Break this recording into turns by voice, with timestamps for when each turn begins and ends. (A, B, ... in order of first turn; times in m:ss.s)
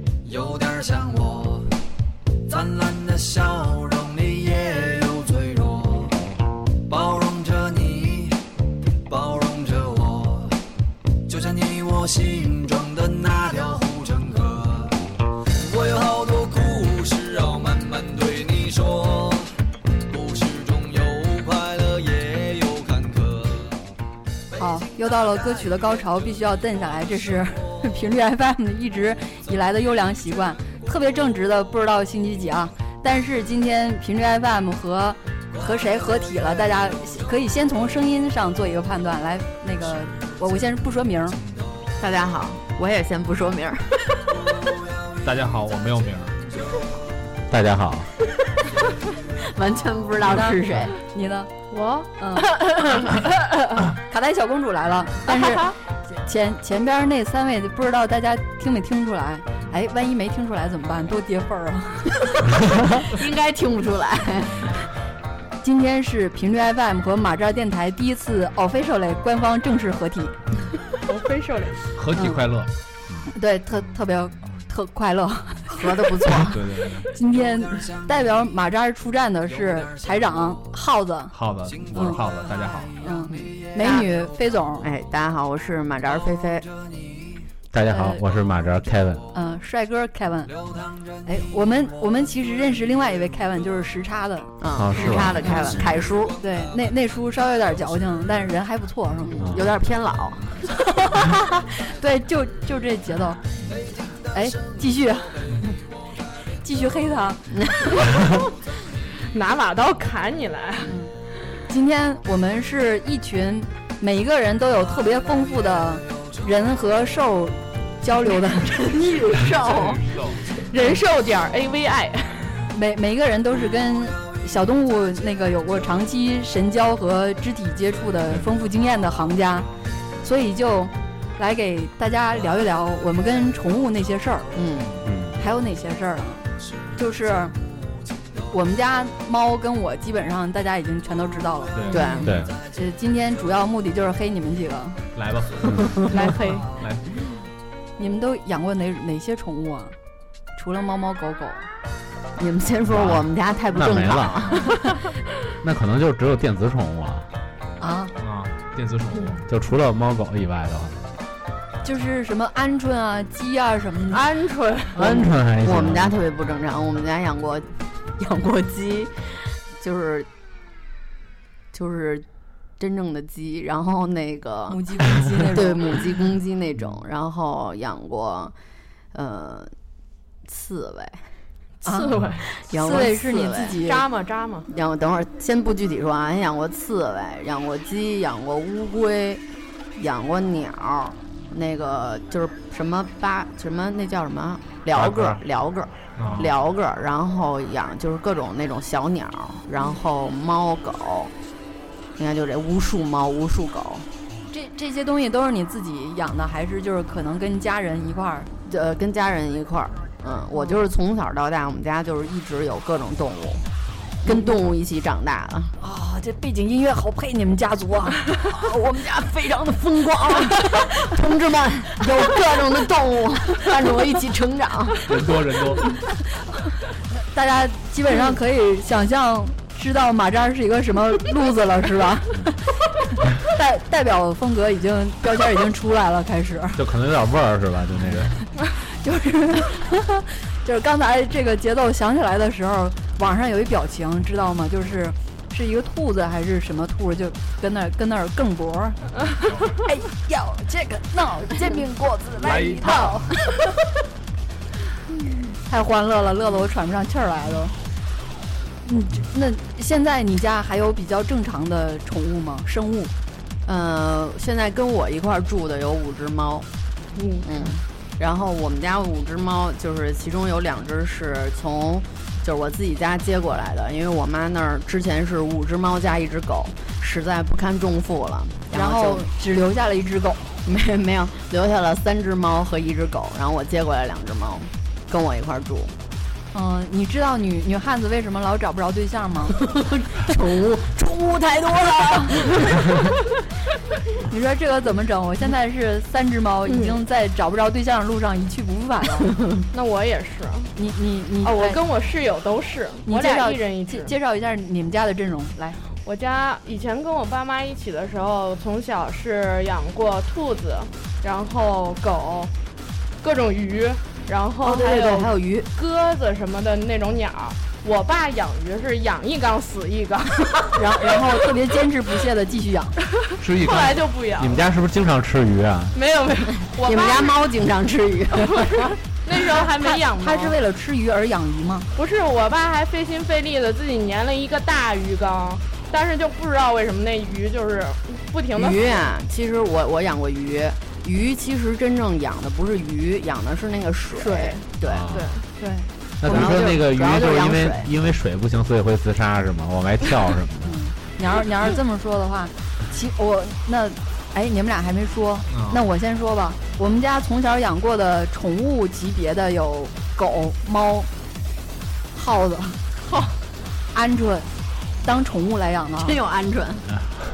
0:00.2-0:01.7 A
0:02.5-0:06.2 A
0:06.9-0:08.4 A
0:09.1-0:10.6 A
0:11.3-0:15.0 A
0:15.6-0:19.5 A
0:20.0-0:23.8 A
0:24.6-0:41.4 B
0:42.0-0:44.2 C
0:45.2-0:46.4 D
0:47.5-0:48.1 E
0:49.4-0:51.0 C
0:50.3-0:51.5 B
0:51.7-0:52.1 F
0:52.2-0:52.5 B
0:54.0-1:02.1 B
0:55.3-0:55.8 F
1:03.0-1:04.8 C
1:05.6-1:10.4 B
1:11.1-1:11.8 F
1:12.0-1:12.7 D
1:12.1-1:12.4 B
1:13.3-1:16.3 B
1:14.4-1:14.7 D
1:15.7-1:16.6 C
1:16.3-1:17.1 D
1:17.1-1:21.4 B
1:19.6-1:20.5 A
1:21.3-1:23.0 D
1:21.9-1:22.7 A
1:21.9-1:22.2 B
1:23.0-1:24.9 B
1:23.8-1:24.1 C
1:24.8-1:26.7 C
1:27.7-1:29.2 E
1:27.9-1:28.2 B
1:29.3-1:30.5 B
1:31.2-1:35.9 B
1:34.6-1:36.4 C
1:34.7-1:35.9 E
1:36.4-1:39.5 B
1:39.2-1:40.6 C
1:39.4-1:39.7 E
1:40.7-1:43.4 B
1:44.3-1:45.7 B
1:46.6-1:47.5 B
1:47.5-1:48.5 C
1:49.3-1:51.0 F
1:50.8-1:51.1 B
1:51.7-1:58.8 B
1:58.6-2:00.0 C
1:59.4-2:00.5 D
2:00.6-2:02.6 F
2:02.7-2:09.7 B
2:10.2-2:14.5 B
2:14.5-2:15.0 C
2:15.0-2:15.4 E
2:15.4-2:17.6 B
2:18.5-2:25.0 B
2:21.7-2:22.5 D
2:21.9-2:22.2 F
2:21.9-2:22.4 C
2:22.3-2:22.5 E
2:25.2-2:27.1 D
2:26.1-2:26.6 B
2:26.1-2:26.7 F
2:28.0-2:30.0 B
2:30.6-2:31.7 B
2:32.4-2:34.8 C
2:32.9-2:34.6 E
2:35.6-2:37.3 E
2:37.8-2:38.1 B
2:38.2-2:39.4 D
2:39.5-2:41.0 E
2:41.8-2:44.2 B
2:44.1-2:45.2 F
2:44.9-2:46.2 E
2:45.6-2:49.2 C
2:49.8-2:50.3 C
2:51.7-2:52.3 C
2:52.8-2:58.5 C
2:54.7-2:56.0 B
2:59.1-2:59.7 C
3:00.4-3:01.2 C
3:01.8-3:02.5 F
3:01.8-3:02.1 B
3:02.5-3:03.8 C
3:02.7-3:04.1 B
3:03.7-3:04.7 F
3:04.7-3:09.4 C
3:10.0-3:21.3 C
3:14.9-3:15.4 E
3:16.2-3:16.6 D
3:22.2-3:24.1 C
3:24.5-3:28.5 B
3:28.7-3:33.6 C
3:30.5-3:30.8 B
3:34.2-3:35.7 C
3:34.3-3:34.6 B
3:35.8-3:38.3 B
3:38.4-3:45.1 C
3:45.1-3:46.0 D
3:47.2-3:52.7 B
3:53.4-3:56.8 B
3:56.8-3:58.4 E
3:58.8-4:09.0 B
4:09.8-4:13.6 B
4:12.4-4:13.2 D
4:15.7-4:17.7 B
4:18.8-4:23.1 B
4:23.6-4:26.7 C
4:27.2-4:27.5 F
4:27.4-4:39.3 C
4:38.7-4:40.6 B
4:40.6-4:45.9 C
4:46.5-4:49.6 B
4:49.5-4:53.0 C
4:54.2-4:59.3 B
4:59.7-5:00.7 F
5:00.8-5:01.8 B
5:01.4-5:04.1 F
5:03.1-5:05.8 B
5:06.0-5:12.5 F
5:13.2-5:21.2 F
5:14.6-5:15.7 C
5:20.8-5:23.0 B
5:23.4-5:24.0 D
5:23.6-5:24.6 F
5:24.4-5:26.0 E
5:25.9-5:27.4 F
5:26.8-5:29.0 C
5:28.3-5:30.6 F
5:29.6-5:31.9 B
5:32.0-5:39.1 F
5:38.6-5:45.1 C
5:44.1-5:45.5 F
5:44.8-5:45.4 E
5:45.6-5:46.5 B
5:46.2-5:50.8 E
5:46.2-5:47.9 C
5:50.6-6:01.1 B
5:55.5-5:55.8 D
6:02.1-6:02.8 B
6:03.1-6:03.3 F
6:03.9-6:04.5 B
6:05.0-6:06.2 B
6:06.0-6:06.9 C